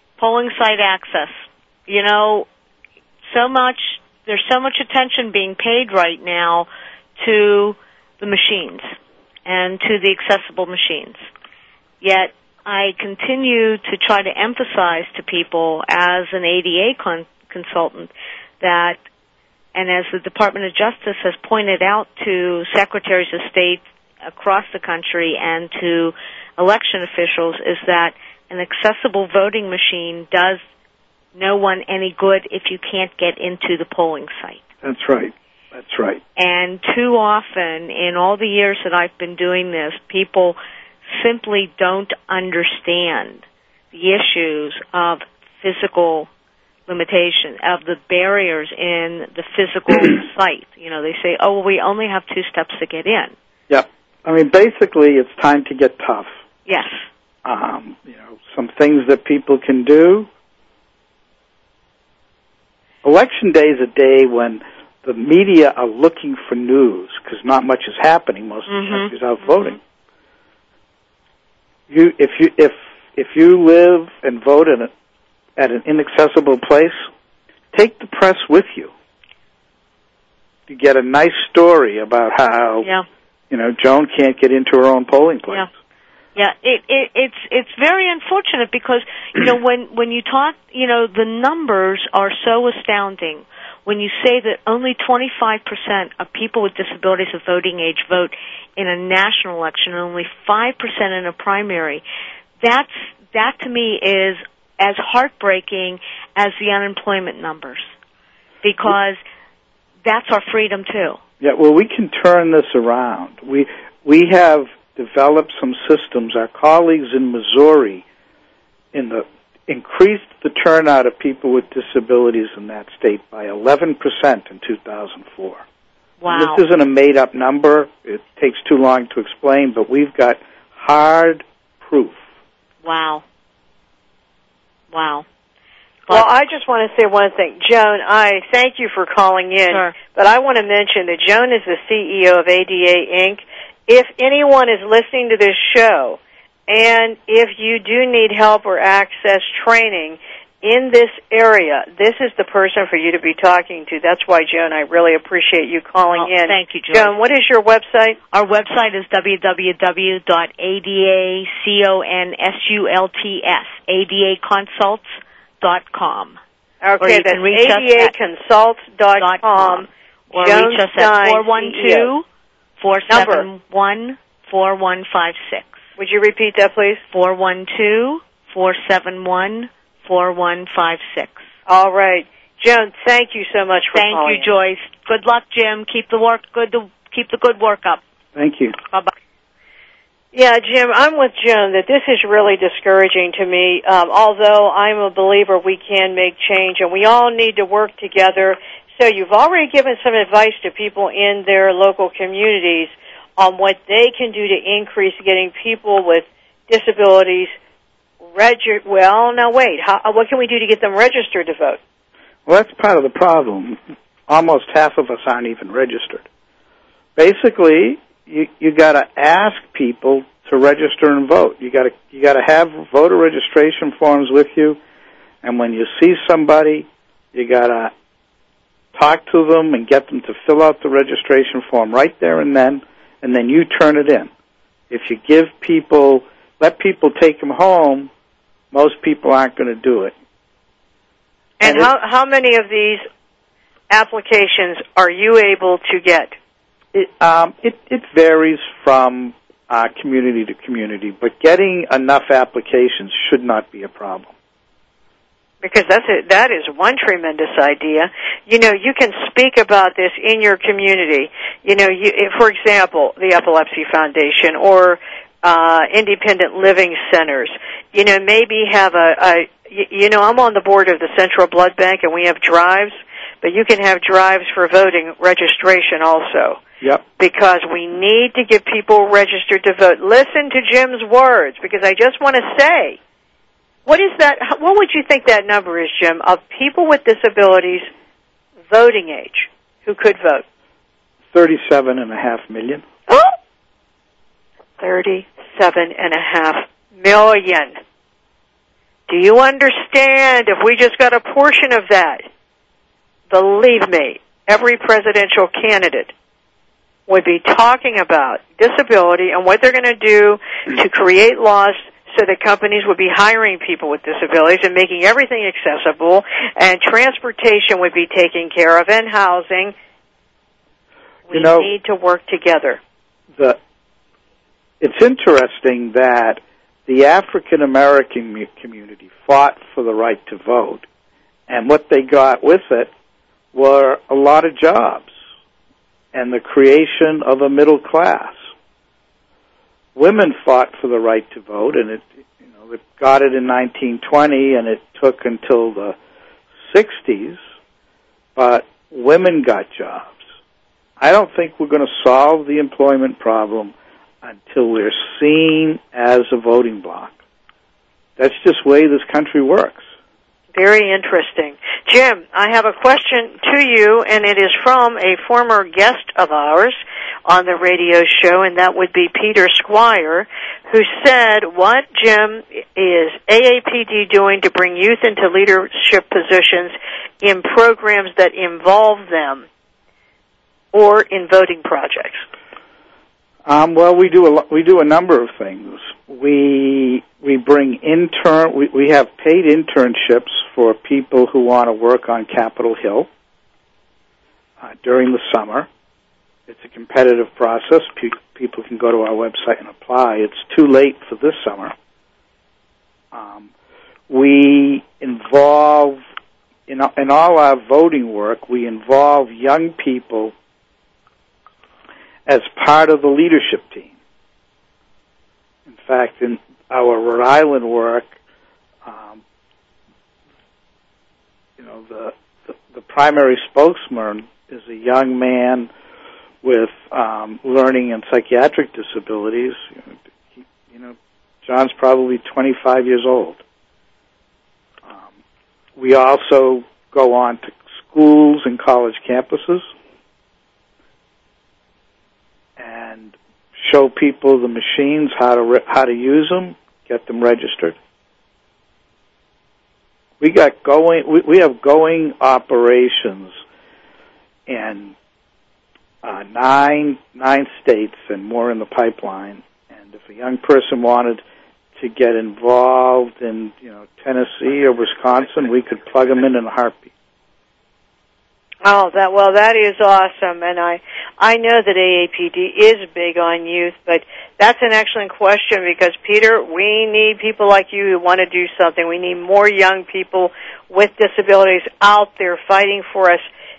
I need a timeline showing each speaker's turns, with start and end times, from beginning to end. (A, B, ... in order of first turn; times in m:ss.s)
0:00.2-0:01.3 A
0:01.9-0:02.5 A
0:03.3-0:06.7 A
0:07.2-0:08.9 A
0:09.4-0:11.2 A
0:12.0-0:19.0 A
0:19.7-0:30.6 A
0:31.3-0:34.6 A
0:34.8-0:36.2 B
0:36.4-0:40.6 A
0:41.1-0:46.3 A
0:46.9-0:53.3 A
0:53.7-0:56.3 B
0:56.6-0:56.9 A
0:57.4-1:00.3 B
1:03.0-1:09.8 B
1:08.7-1:09.8 A
1:11.9-1:14.9 B
1:15.6-1:17.0 B
1:17.7-1:18.9 B
1:20.7-1:22.9 B
1:23.5-1:25.7 B
1:26.3-1:42.0 A
1:42.6-1:47.9 A
1:48.6-1:49.2 A
1:50.0-1:51.2 A
1:51.4-1:58.0 B
1:58.9-2:05.6 B
2:06.2-2:06.6 A
2:06.3-2:12.2 B
2:12.8-2:13.2 A
2:14.9-2:15.2 A
2:16.1-2:16.3 A
2:16.1-2:38.2 C
2:36.1-2:37.2 A
2:38.3-2:46.4 A
2:46.8-2:52.1 C
2:47.0-2:48.1 A
2:49.2-2:52.2 A
2:52.8-2:55.7 A
2:53.1-2:53.4 C
2:56.0-2:57.0 C
2:57.1-3:01.4 A
3:01.7-3:04.5 C
3:03.9-3:08.0 A
3:08.3-3:08.8 B
3:10.3-3:27.5 C
3:28.3-3:31.8 C
3:32.4-3:36.2 B
3:37.2-3:44.8 B
3:45.4-3:47.9 B
3:48.9-3:54.3 B
3:54.9-3:58.1 B
3:58.7-4:00.1 B
4:01.6-4:03.0 C
4:01.6-4:01.9 B
4:03.9-4:06.3 C
4:06.9-4:14.3 B
4:15.6-4:36.6 C
4:37.2-4:43.0 C
4:43.8-4:47.9 C
4:48.7-4:50.4 C
4:51.3-4:52.8 B
4:54.8-4:57.7 C
4:59.1-5:02.2 C
5:03.3-5:06.1 C
5:07.1-5:19.7 C
5:21.3-5:22.8 C
5:21.3-5:21.7 B
5:24.8-5:30.8 B
5:31.5-5:32.9 B
5:33.5-5:35.1 B
5:36.1-5:38.4 B
5:39.9-5:46.0 B
5:46.6-5:47.4 B
5:48.4-5:50.2 B
5:51.0-5:57.2 B
5:58.2-5:59.8 B
6:00.5-6:19.4 C
6:20.7-6:22.2 C
6:23.4-6:33.1 B
6:34.6-6:35.7 B
6:36.5-6:41.7 B
6:43.1-6:43.5 B
6:44.1-6:46.0 B
6:46.7-6:50.3 B
6:52.3-6:53.9 B
6:55.7-6:58.1 B
6:58.8-6:59.2 B
7:01.6-7:05.7 B
7:06.4-7:13.4 B
7:15.8-7:19.6 B
7:22.6-7:27.8 B
7:30.2-7:33.4 B
7:34.5-7:34.9 B
7:36.0-7:41.2 B
7:41.8-7:46.9 B
7:48.6-8:03.2 C